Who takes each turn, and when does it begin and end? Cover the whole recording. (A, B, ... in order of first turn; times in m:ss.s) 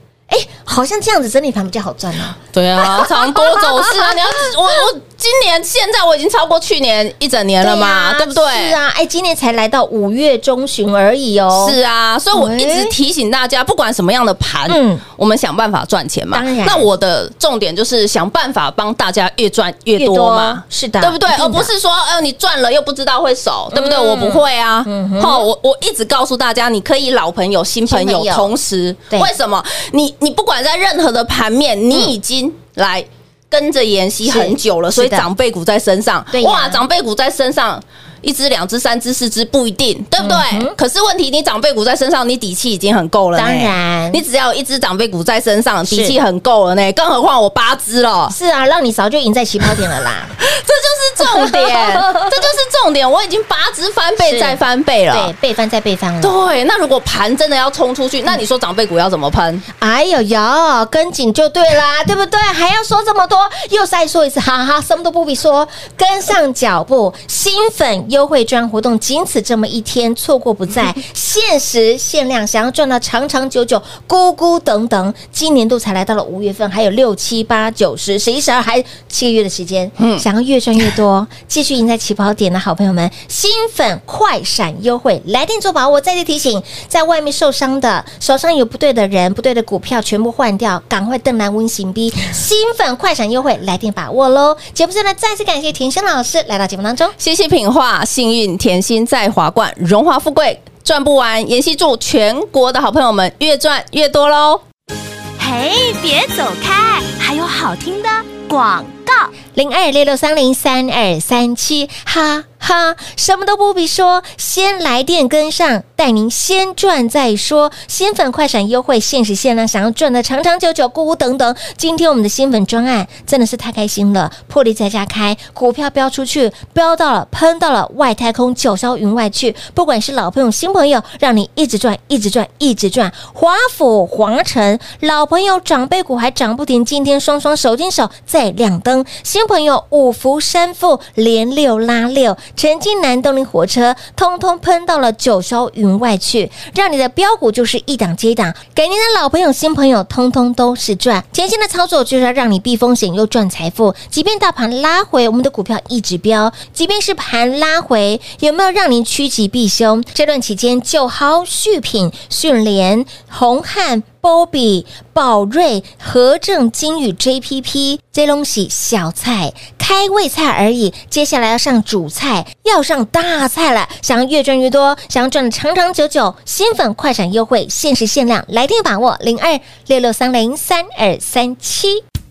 0:00.3-0:04.2 A
0:02.5-0:08.8 B
0:07.6-0:11.8 A
0:11.5-0:48.4 B
0:12.3-0:12.9 A
0:14.7-0:15.0 A
0:16.3-0:16.9 A
0:20.0-0:21.7 A
0:23.7-0:25.5 A
0:27.9-0:28.5 A
0:34.2-0:35.3 A
0:36.3-0:36.8 A
0:40.2-0:40.7 A
0:43.3-0:44.2 A
0:45.9-0:46.2 A
0:48.3-0:50.4 A
0:50.4-0:55.3 B
0:51.2-0:52.3 A
0:54.2-0:54.6 A
0:55.1-0:56.4 A
0:56.2-0:59.6 B
0:59.8-1:37.1 A
1:20.0-1:20.2 B
1:37.2-1:44.6 B
1:45.4-1:49.3 C
1:49.5-3:02.0 A